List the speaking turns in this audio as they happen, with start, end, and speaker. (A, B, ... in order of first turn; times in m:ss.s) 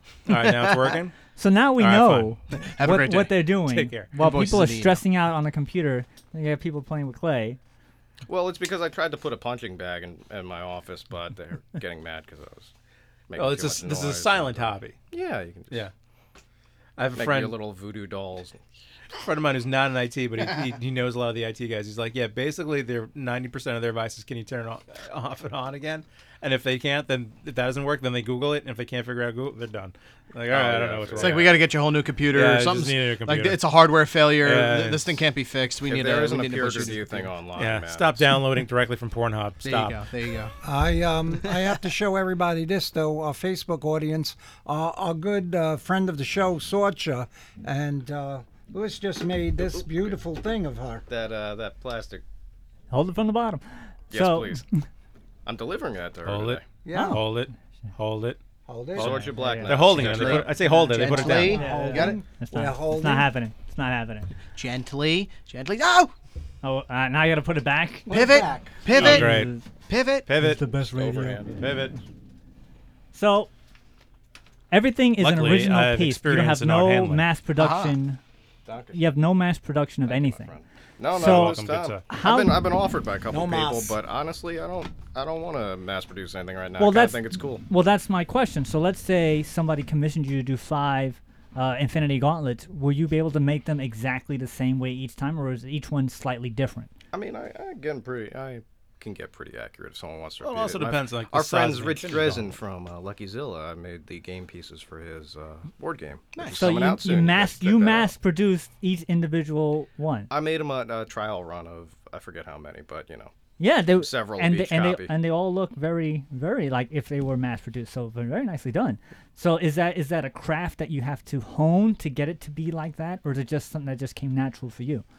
0:00.3-0:01.1 A
0:01.4-0:07.6 B
0:01.8-0:02.3 A
0:02.6-0:03.5 C
0:03.6-0:04.1 A
0:04.1-0:05.0 C
0:08.3-0:12.7 D
0:13.3-0:15.9 D
0:13.3-0:15.0 A
0:17.0-0:17.6 A
0:17.2-0:18.6 D
0:19.2-0:31.6 A
0:30.5-0:31.6 D
0:31.2-0:37.3 C
0:32.3-0:33.6 A
0:34.4-0:35.2 A
0:35.8-0:38.4 D
0:37.6-0:40.0 A
0:39.6-0:40.5 C
0:40.6-0:51.0 E
0:49.6-0:50.1 D
0:51.1-0:52.2 D
0:52.9-0:54.8 B
0:54.1-0:54.6 D
0:55.4-0:56.6 D
0:56.2-0:58.4 A
0:56.8-0:57.2 E
0:56.9-0:57.2 B
0:58.7-0:59.4 E
0:59.0-1:00.6 D
0:59.0-1:01.6 A
0:59.0-0:59.7 B
1:00.0-1:02.2 C
1:01.0-1:04.3 B
1:01.0-1:03.3 E
1:04.5-1:06.1 C
1:06.6-1:08.1 B
1:08.1-1:08.9 E
1:08.1-1:10.3 C
1:08.9-1:09.5 A
1:08.9-1:09.6 B
1:10.3-1:10.6 A
1:10.4-1:11.4 B
1:10.9-1:11.6 D
1:11.6-1:11.9 A
1:13.1-1:13.5 B
1:14.7-1:18.2 B
1:15.2-1:17.2 A
1:17.6-1:18.0 C
1:18.6-1:19.0 D
1:18.9-1:20.5 B
1:20.0-1:27.6 D
1:21.1-1:22.0 A
1:21.1-1:22.6 B
1:23.3-1:24.0 E
1:26.8-1:36.9 B
1:37.1-1:48.1 D
1:40.4-1:42.5 A
1:46.4-1:46.8 C
1:46.6-1:50.3 B
1:50.3-1:53.3 D
1:53.6-2:05.0 B
1:53.9-1:55.1 D